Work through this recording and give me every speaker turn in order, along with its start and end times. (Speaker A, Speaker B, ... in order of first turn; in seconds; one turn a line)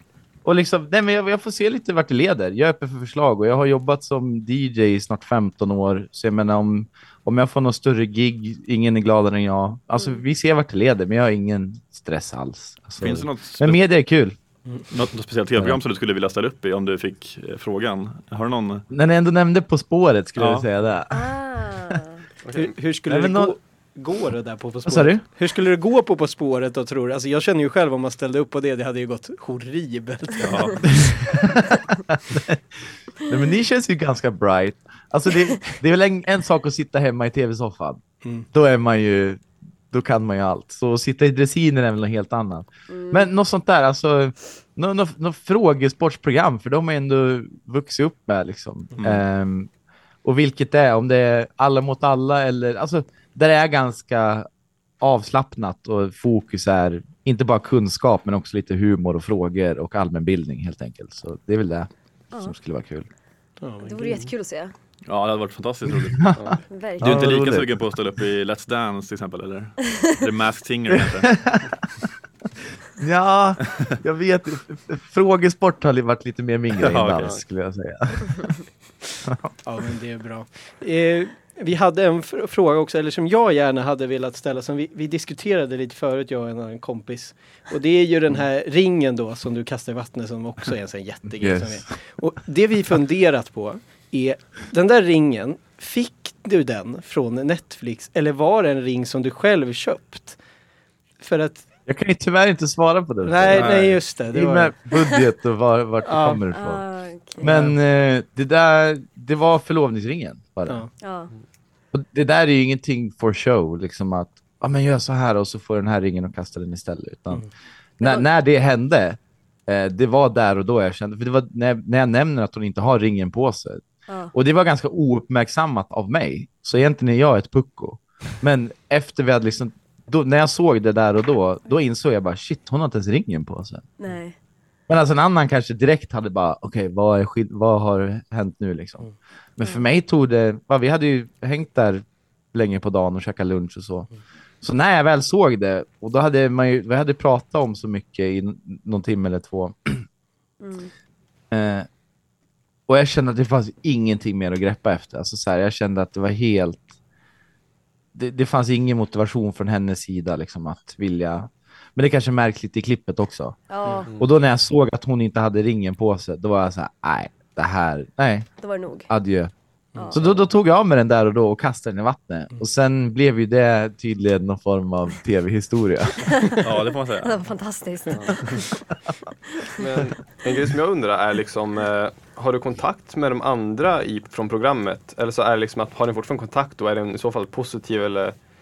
Speaker A: 0.5-14.4
Speaker B: 13.0-13.8
Speaker B: 14.9-18.9
Speaker A: 15.6-15.8
Speaker A: 18.9-21.3
Speaker B: 20.4-20.7
Speaker C: 21.1-22.3
Speaker D: 22.4-22.8
Speaker E: 22.5-31.1
Speaker A: 23.1-23.6
Speaker A: 24.9-25.2
Speaker B: 30.4-31.2
Speaker A: 31.6-38.0
Speaker A: 38.5-49.7
Speaker C: 42.9-43.3
Speaker B: 49.0-49.2
Speaker A: 50.2-54.5
Speaker A: 55.0-63.1
Speaker E: 63.6-64.3
Speaker C: 63.8-64.7
Speaker B: 65.1-71.6
Speaker D: 66.3-66.6
Speaker C: 66.7-67.3
Speaker A: 67.0-67.8
Speaker A: 71.3-71.8
Speaker A: 73.0-78.6
Speaker B: 76.8-77.4
Speaker A: 79.2-79.5
Speaker E: 79.6-100.4
Speaker A: 91.4-91.9
Speaker E: 101.2-101.7
Speaker A: 101.9-106.8
Speaker E: 103.2-104.8
Speaker B: 103.5-104.0
Speaker E: 106.0-106.4
Speaker C: 106.5-107.5
Speaker A: 107.4-110.9
Speaker E: 107.4-107.8
Speaker C: 111.0-111.3
Speaker A: 111.9-117.5
Speaker A: 118.0-133.9
Speaker C: 134.0-134.4
Speaker A: 134.9-150.1
Speaker C: 150.6-150.9
Speaker A: 151.5-151.9
Speaker A: 152.9-156.9
Speaker A: 158.1-163.6
Speaker C: 163.7-164.1
Speaker A: 164.2-168.5
Speaker C: 168.6-169.1
Speaker A: 169.1-169.5
Speaker C: 170.0-170.3
Speaker A: 170.1-176.4
Speaker B: 176.6-177.4
Speaker C: 177.2-178.9
Speaker D: 178.1-178.4
Speaker D: 179.8-188.4